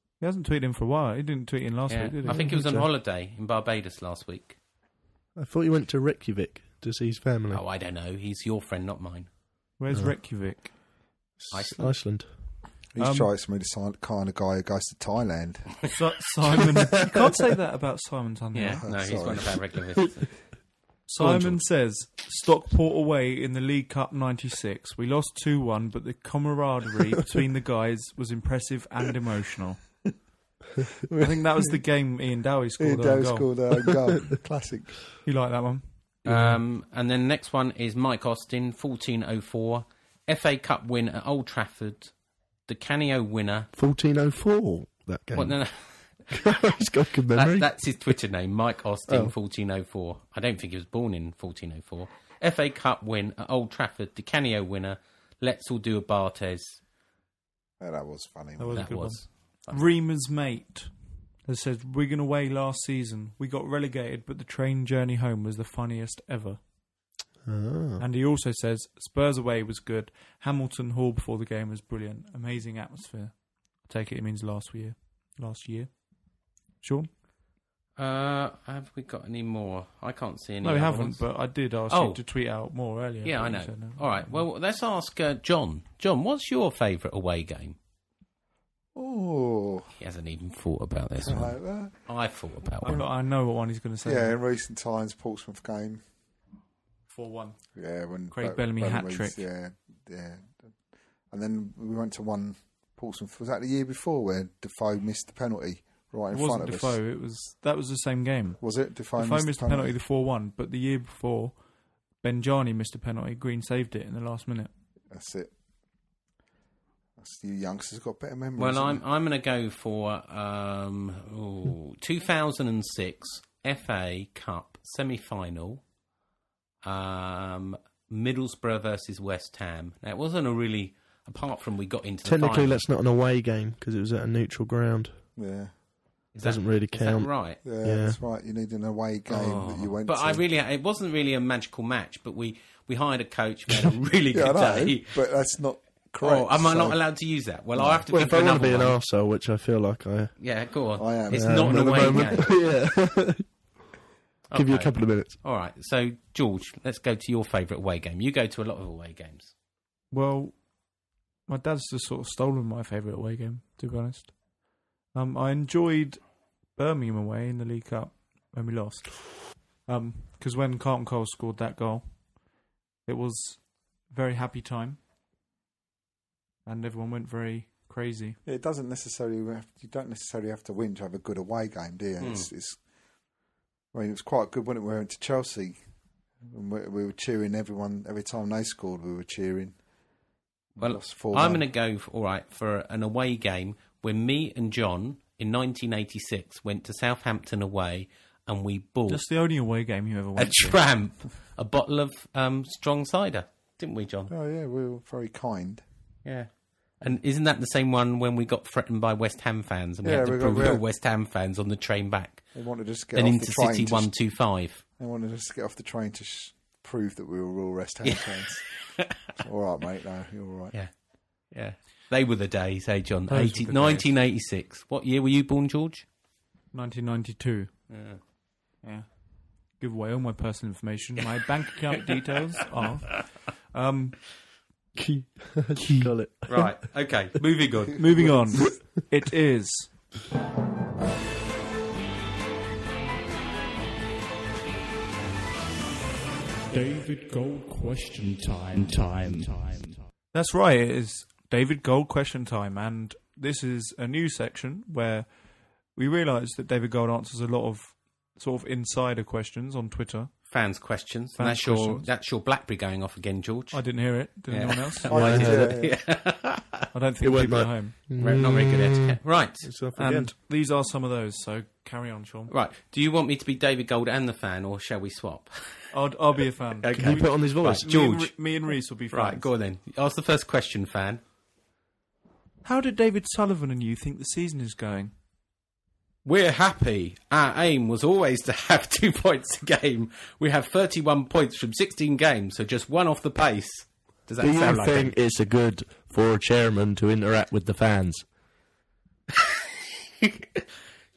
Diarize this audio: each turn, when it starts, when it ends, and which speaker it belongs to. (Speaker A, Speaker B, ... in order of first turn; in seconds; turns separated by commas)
Speaker A: 0.2-2.5, Speaker B: 1.9-4.6, Speaker C: 2.3-2.9, Speaker C: 5.4-7.6, Speaker B: 7.5-9.3, Speaker A: 9.8-10.7, Speaker C: 9.9-10.2, Speaker C: 11.4-12.3, Speaker B: 11.5-11.9, Speaker D: 12.9-15.9, Speaker A: 13.0-13.3, Speaker A: 15.9-18.8, Speaker B: 18.5-20.4, Speaker D: 18.8-19.6, Speaker A: 21.1-29.8, Speaker B: 21.2-21.6, Speaker D: 31.1-31.4, Speaker A: 31.2-33.5, Speaker D: 32.8-35.1, Speaker A: 35.2-36.5, Speaker B: 36.3-42.1, Speaker B: 42.7-43.7, Speaker C: 43.7-45.6, Speaker B: 45.4-46.4, Speaker C: 46.3-47.7, Speaker B: 47.3-56.8, Speaker C: 49.1-49.3, Speaker D: 57.8-59.1, Speaker A: 58.6-66.6, Speaker B: 58.8-59.9, Speaker C: 67.4-68.0, Speaker A: 68.0-76.1, Speaker A: 76.8-77.1, Speaker B: 78.0-82.2, Speaker A: 80.6-84.4, Speaker B: 83.2-87.8, Speaker D: 88.9-89.9, Speaker B: 90.0-93.0, Speaker D: 91.2-92.0, Speaker A: 92.8-94.4, Speaker D: 94.0-96.0, Speaker A: 97.1-97.6, Speaker D: 97.8-100.7, Speaker A: 98.3-99.4, Speaker D: 101.3-107.0, Speaker A: 106.3-108.6, Speaker D: 108.6-110.0, Speaker A: 109.2-111.6, Speaker A: 112.2-114.7, Speaker D: 115.1-115.5, Speaker D: 117.2-119.0, Speaker B: 118.6-125.8, Speaker B: 126.8-132.8, Speaker C: 132.2-135.1, Speaker D: 135.4-135.7, Speaker B: 136.3-137.6, Speaker C: 136.4-138.2, Speaker D: 137.6-140.4, Speaker B: 139.3-145.2, Speaker D: 144.3-147.0, Speaker B: 146.2-149.0, Speaker D: 147.8-148.1, Speaker C: 148.1-150.3, Speaker B: 150.4-152.4, Speaker D: 151.0-152.4, Speaker C: 151.3-153.5, Speaker B: 154.5-159.5, Speaker C: 154.5-155.4, Speaker A: 160.1-160.6, Speaker A: 161.5-164.4, Speaker A: 165.1-166.2, Speaker A: 166.8-172.3, Speaker A: 173.1-175.0, Speaker A: 176.7-178.4, Speaker D: 178.4-182.8, Speaker B: 182.2-182.5, Speaker D: 183.9-185.8, Speaker D: 186.5-189.8, Speaker D: 190.8-191.6, Speaker B: 190.8-199.2, Speaker A: 199.1-200.8, Speaker B: 200.4-204.3, Speaker D: 204.3-205.8, Speaker B: 206.2-212.6, Speaker D: 210.0-210.8, Speaker D: 212.6-214.1, Speaker B: 213.1-214.8, Speaker D: 215.0-218.6, Speaker B: 218.1-218.4, Speaker D: 219.4-220.8, Speaker B: 221.5-226.1, Speaker A: 223.3-224.1, Speaker A: 226.7-227.7, Speaker B: 227.9-228.2, Speaker A: 229.8-234.2, Speaker C: 234.9-236.7, Speaker A: 235.8-236.1, Speaker B: 236.5-238.3, Speaker A: 238.0-239.9, Speaker D: 238.1-238.6, Speaker E: 246.7-250.1, Speaker A: 250.3-255.3, Speaker A: 255.9-260.3, Speaker B: 260.5-266.9, Speaker A: 261.4-262.1, Speaker A: 263.7-265.5, Speaker D: 265.1-265.9, Speaker C: 265.1-265.8, Speaker A: 266.9-267.9, Speaker C: 267.2-270.3, Speaker B: 268.2-269.7, Speaker A: 269.9-272.5, Speaker B: 272.5-275.9, Speaker A: 275.9-279.5, Speaker B: 276.8-278.6, Speaker C: 276.9-278.0, Speaker B: 279.1-281.2, Speaker A: 282.6-285.1, Speaker B: 286.2-295.1, Speaker C: 294.4-298.3, Speaker B: 300.2-300.6